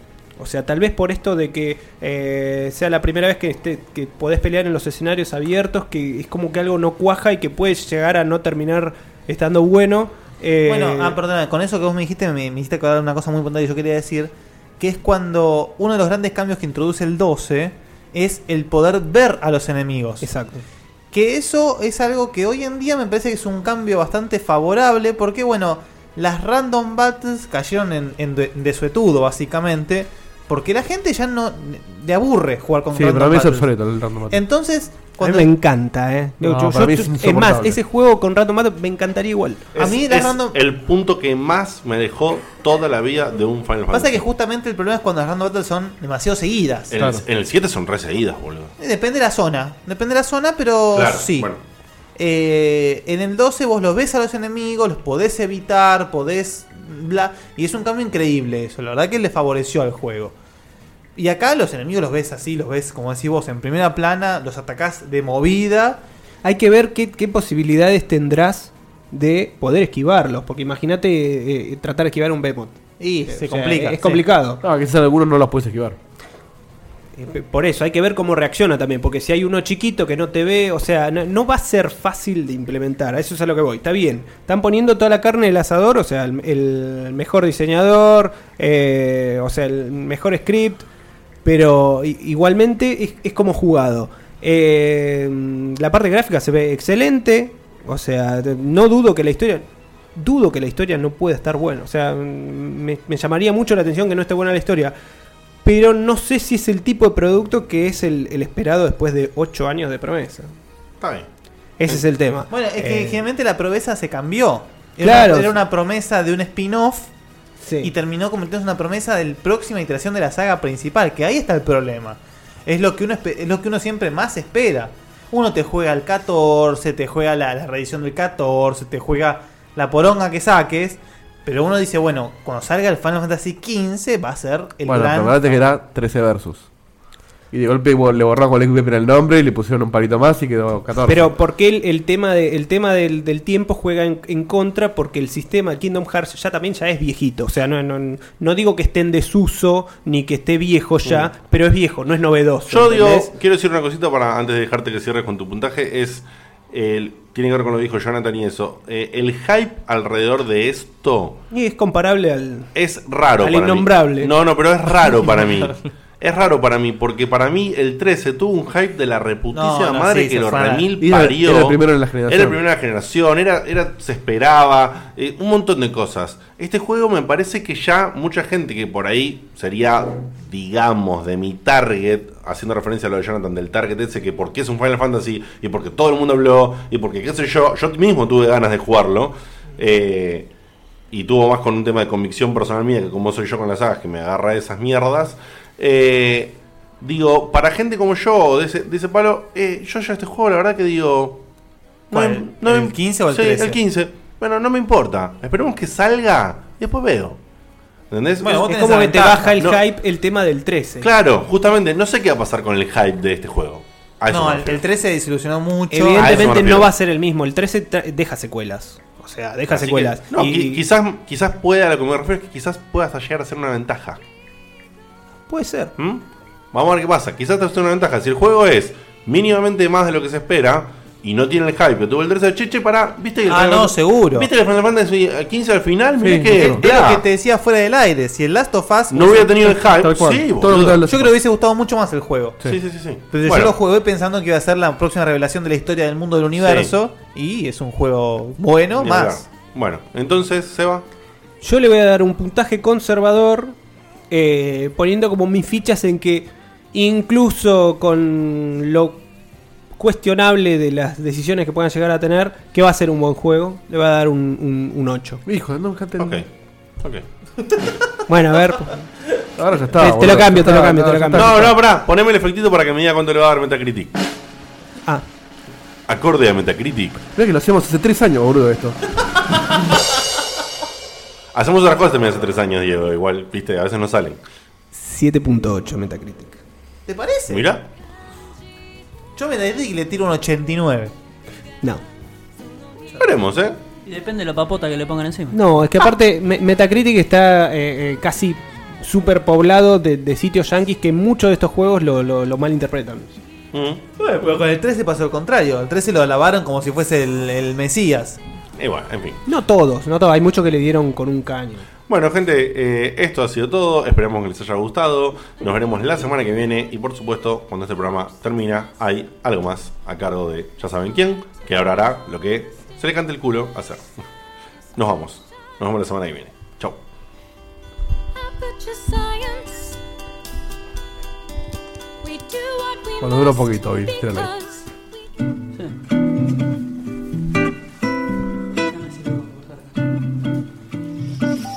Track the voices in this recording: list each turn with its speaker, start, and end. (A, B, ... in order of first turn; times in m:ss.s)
0:00.4-0:11.2 A
0:10.6-0:20.3 B
0:20.2-0:20.6 A
0:21.1-0:33.7 B
0:32.9-0:34.4 C
0:34.3-0:35.5 B
0:35.2-0:39.6 A
0:36.4-0:37.8 C
0:39.7-0:44.2 D
0:39.8-0:40.6 B
0:43.9-0:47.0 B
0:46.9-0:48.7 D
0:48.8-0:51.5 B
0:50.9-0:51.6 D
0:52.2-1:00.3 B
1:01.2-1:06.0 B
1:06.4-1:14.6 A
1:13.0-1:14.2 B
1:14.6-1:16.0 C
1:17.2-1:30.9 A
1:31.4-1:44.9 A
1:45.6-1:50.5 A
1:51.0-1:51.3 D
1:51.8-1:53.2 A
1:52.5-1:57.1 B
1:55.0-1:55.5 A
1:57.6-1:57.9 A
1:57.8-2:15.4 B
2:14.8-2:16.7 C
2:17.5-2:21.3 C
2:21.0-2:33.3 A
2:32.7-2:41.4 D
2:41.5-2:42.7 A
2:42.7-3:10.5 D
2:43.4-2:44.3 A
2:45.4-2:45.7 B
2:49.5-2:50.9 B
2:51.0-2:52.6 C
3:11.1-3:21.4 D
3:22.1-3:23.8 B
3:22.1-3:27.4 D
3:28.1-3:28.7 D
3:28.4-3:29.6 B
3:28.7-3:31.1 A
3:31.0-3:34.8 D
3:34.3-3:36.5 B
3:35.9-3:40.8 A
3:36.2-3:36.9 D
3:39.7-3:44.2 D
3:45.5-3:45.9 A
3:46.0-3:57.2 D
3:53.4-3:54.5 B
3:56.2-3:56.8 C
3:56.5-3:59.5 B
3:59.1-4:01.0 D
3:59.8-4:01.3 C
4:01.0-4:02.6 B
4:02.6-4:03.7 D
4:03.3-4:09.4 B
4:06.6-4:06.9 D
4:08.9-4:11.0 D
4:11.6-4:13.7 A
4:14.3-4:19.2 A
4:19.9-4:25.4 A
4:25.4-4:26.4 C
4:26.2-4:26.5 D
4:28.3-4:29.0 A
4:29.6-4:31.7 C
4:30.0-4:31.7 A
4:31.3-4:34.1 D
4:36.1-4:37.2 D
4:37.3-4:39.0 C
4:41.5-4:44.4 D
4:44.9-4:46.6 A
4:47.1-4:47.6 B
4:47.5-4:47.8 D
4:49.3-4:51.1 B
4:53.2-4:53.8 D
4:54.0-4:55.6 E
4:55.5-5:03.4 A
5:03.7-5:04.0 D
5:04.2-5:08.4 B
5:08.8-5:09.4 D
5:09.4-5:11.8 A
5:12.1-5:24.1 D
5:25.0-5:27.0 D
5:33.2-5:34.5 C
5:38.8-5:39.9 E